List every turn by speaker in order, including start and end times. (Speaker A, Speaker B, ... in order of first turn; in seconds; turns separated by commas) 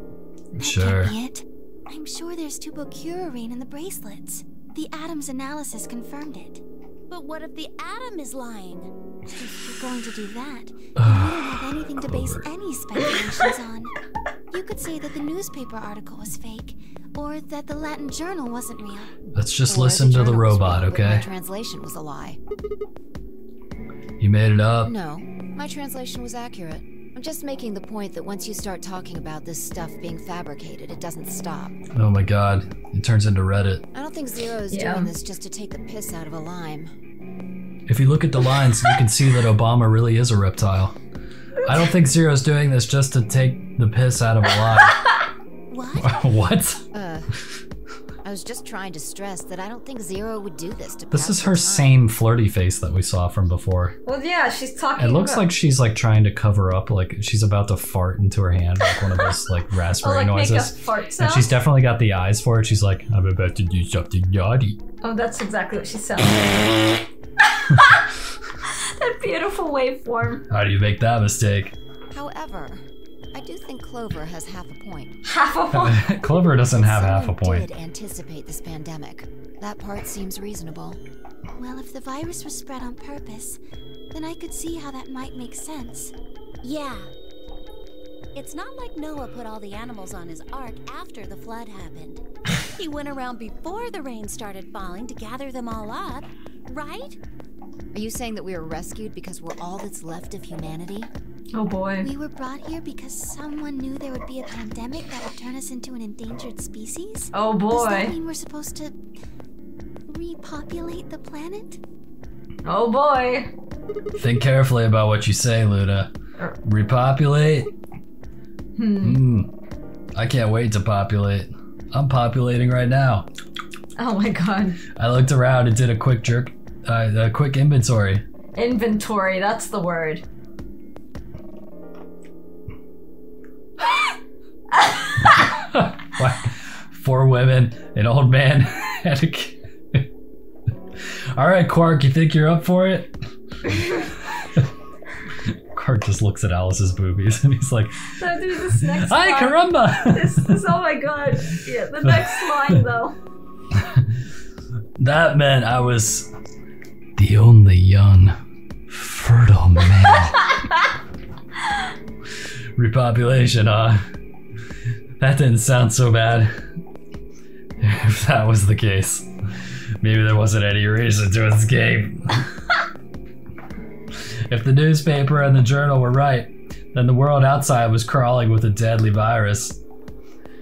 Speaker A: 0.6-1.1, Speaker B: 0.6-6.6, Speaker C: 7.1-8.9, Speaker B: 9.5-13.9, Speaker A: 10.9-12.4, Speaker B: 14.5-19.2, Speaker A: 19.3-21.2, Speaker D: 19.7-22.4, Speaker A: 24.2-24.9, Speaker D: 24.8-31.8, Speaker A: 31.9-33.8, Speaker D: 33.9-36.9, Speaker E: 34.7-35.1, Speaker A: 37.9-41.0, Speaker A: 41.6-45.1, Speaker C: 45.7-46.2, Speaker A: 45.9-46.8, Speaker D: 46.9-47.3, Speaker D: 48.2-52.0, Speaker A: 51.1-53.9, Speaker E: 54.0-55.4, Speaker A: 55.0-64.8, Speaker E: 60.0-61.5, Speaker E: 65.0-67.0, Speaker E: 67.6-68.0, Speaker E: 68.6-70.4, Speaker A: 70.5-71.7, Speaker D: 72.1-75.2, Speaker E: 75.2-76.0, Speaker A: 75.7-77.7, Speaker D: 76.8-81.0, Speaker B: 81.5-83.6, Speaker B: 84.1-86.1, Speaker C: 86.6-87.1, Speaker C: 88.3-97.2, Speaker D: 97.9-101.1, Speaker E: 101.5-102.1, Speaker B: 102.0-109.0, Speaker E: 107.3-108.1, Speaker B: 110.0-111.8, Speaker E: 112.6-113.5, Speaker A: 114.2-116.1, Speaker A: 116.6-117.7, Speaker E: 118.8-119.2, Speaker A: 119.0-119.5, Speaker A: 120.1-123.3, Speaker E: 124.0-124.8, Speaker A: 125.0-128.2, Speaker E: 128.6-130.2, Speaker E: 134.8-135.4, Speaker A: 135.4-140.1, Speaker A: 141.3-143.1, Speaker A: 143.7-144.7, Speaker A: 145.4-148.2, Speaker E: 148.2-153.2, Speaker A: 148.7-150.6, Speaker A: 152.0-152.8, Speaker A: 153.8-154.1, Speaker A: 155.0-156.3, Speaker A: 157.2-158.3, Speaker A: 158.9-160.8, Speaker A: 162.8-164.1, Speaker A: 165.2-166.5, Speaker A: 167.8-169.3, Speaker A: 170.0-172.5, Speaker A: 174.5-179.8